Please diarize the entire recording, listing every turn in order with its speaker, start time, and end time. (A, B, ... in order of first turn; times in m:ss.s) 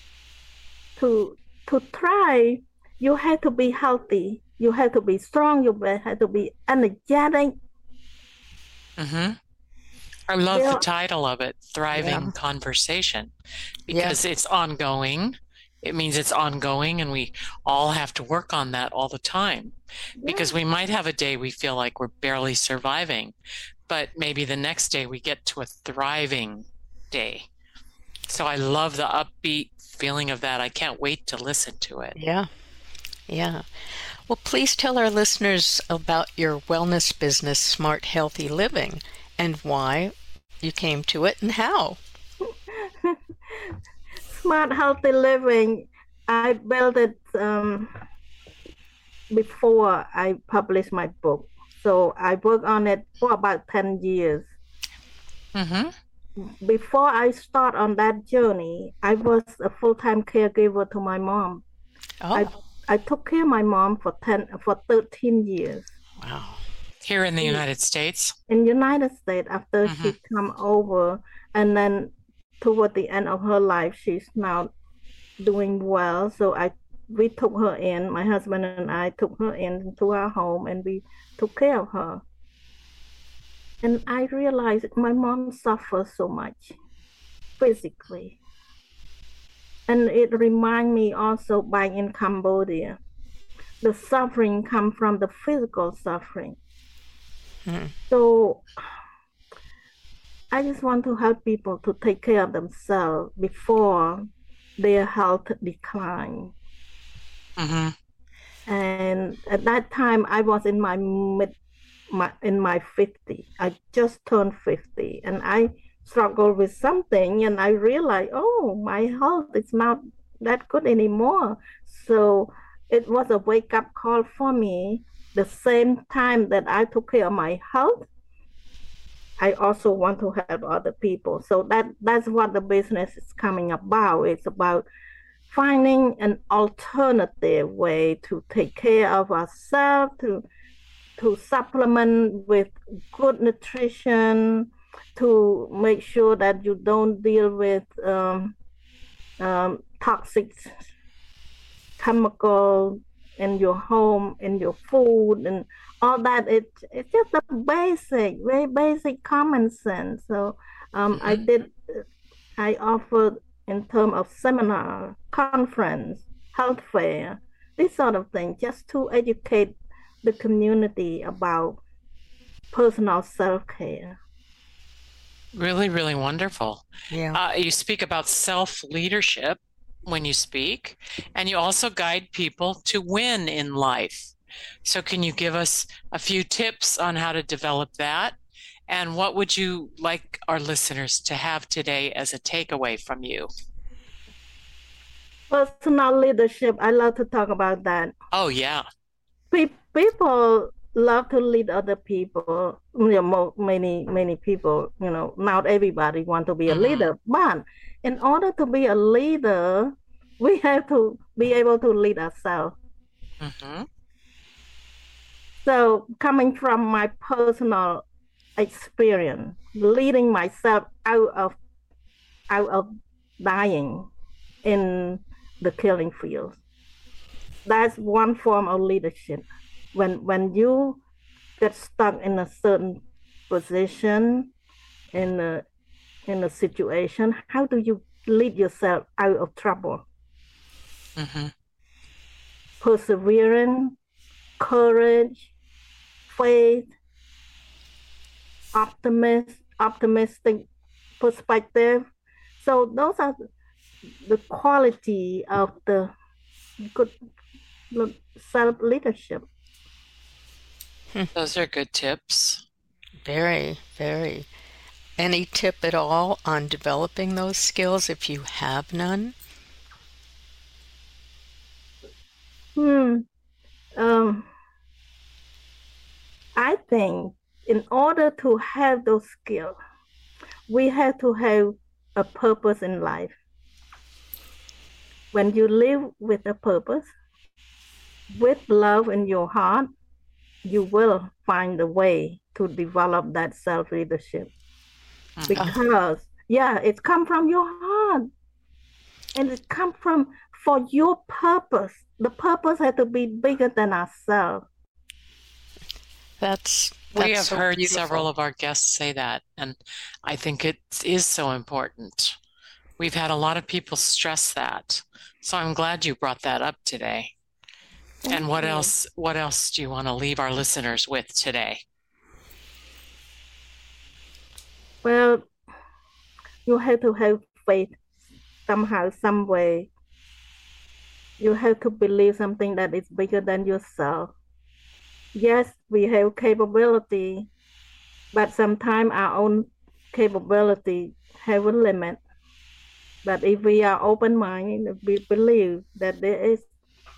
0:01.0-0:07.6 A
0:09.0-0:09.4 B
0:10.3-0:13.3 B
0:10.5-0:10.8 A
0:11.9-0:12.3 C
0:13.9-0:23.3 B
0:13.9-0:14.2 C
0:20.2-0:20.5 A
0:23.9-0:27.4 B
0:28.3-0:32.2 B
0:32.2-0:32.5 C
0:33.3-0:33.6 C
0:34.3-0:42.0 C
0:42.7-0:43.2 A
0:44.3-0:47.9 A
0:49.3-0:54.5 A
0:55.5-0:55.9 B
0:56.4-1:01.6 A
1:02.2-1:02.5 C
1:02.3-1:05.9 A
1:06.2-1:06.6 C
1:07.0-1:08.3 B
1:08.5-1:14.7 A
1:09.8-1:10.1 B
1:15.4-1:22.2 A
1:23.8-1:26.7 A
1:27.6-1:28.4 A
1:29.9-1:33.0 A
1:33.8-1:36.6 A
1:37.6-1:37.9 C
1:38.1-1:38.6 A
1:40.5-1:46.5 A
1:47.6-1:47.9 B
1:48.7-1:51.5 A
1:52.1-2:08.1 A
2:09.4-2:14.8 A
2:15.5-2:20.4 A
2:21.2-2:28.5 A
2:29.4-2:30.8 A
2:32.0-2:42.0 A
2:42.6-2:51.8 A
2:52.7-2:54.2 A
2:55.5-3:04.3 B
2:57.1-2:57.4 C
3:04.8-3:08.3 B
3:08.9-3:13.5 B
3:15.5-3:18.1 A
3:18.3-3:18.8 B
3:19.5-3:32.8 A
3:26.7-3:27.1 B
3:33.4-3:33.9 B
3:35.6-3:38.0 A
3:38.6-3:41.6 A
3:42.5-3:44.1 A
3:44.6-3:46.6 A
3:47.6-3:51.0 A
3:51.6-3:54.5 A
3:55.1-3:55.6 A
3:56.3-4:00.0 A
4:01.2-4:01.5 B
4:02.8-4:04.0 A
4:04.6-4:05.5 A
4:06.3-4:06.9 A
4:08.7-4:10.6 A
4:11.2-4:12.0 A
4:12.6-4:13.4 A
4:14.2-4:16.1 A
4:16.8-4:17.1 A
4:17.9-4:19.4 A
4:21.3-4:22.6 B
4:23.2-4:24.5 C
4:25.2-4:29.3 C
4:32.8-4:33.2 A
4:34.0-4:34.5 A
4:36.5-4:39.8 A
4:40.7-4:43.3 A
4:45.3-4:47.1 A
4:48.3-4:49.9 A
4:50.6-4:54.5 A
4:55.4-4:55.7 B
4:55.5-4:58.3 A
4:59.3-5:04.6 A
5:06.4-5:08.3 C
5:07.1-5:12.3 B
5:13.0-5:17.3 B
5:18.3-5:18.9 A
5:18.3-5:21.8 B
5:25.0-5:25.4 A
5:26.6-5:27.9 A
5:28.7-5:29.9 A
5:31.4-5:34.3 A
5:35.3-5:37.5 A
5:38.3-5:42.2 A
5:43.2-5:46.7 A